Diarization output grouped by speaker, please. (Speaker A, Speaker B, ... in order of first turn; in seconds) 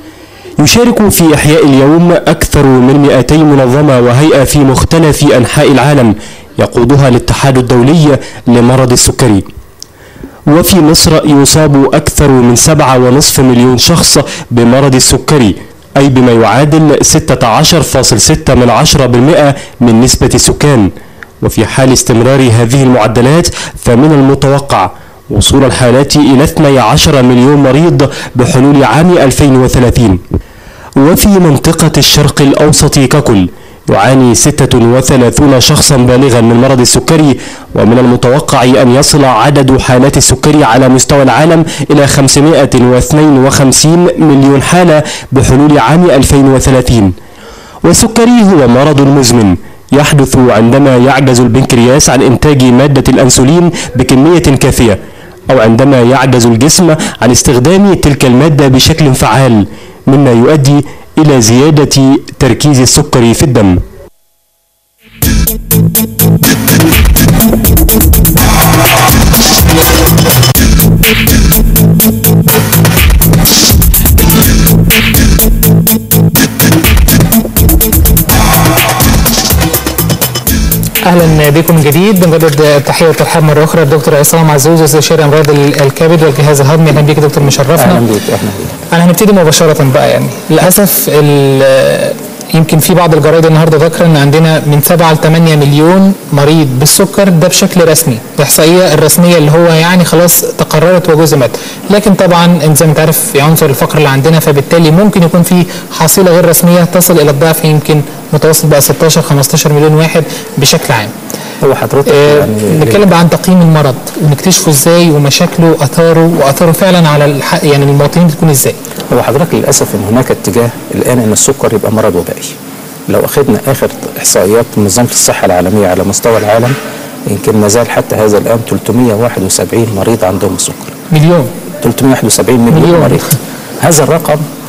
Speaker A: 0.6-9.4, 10.5-20.9, 21.4-30.2, 31.0-47.1, 47.8-63.8
Speaker B: 81.0-88.0, 88.9-111.1, 112.1-118.8, 131.1-131.5, 132.7-133.2
Speaker C: 87.8-88.8, 111.6-113.0, 119.1-122.5, 123.1-126.8, 127.3-130.9, 131.8-134.4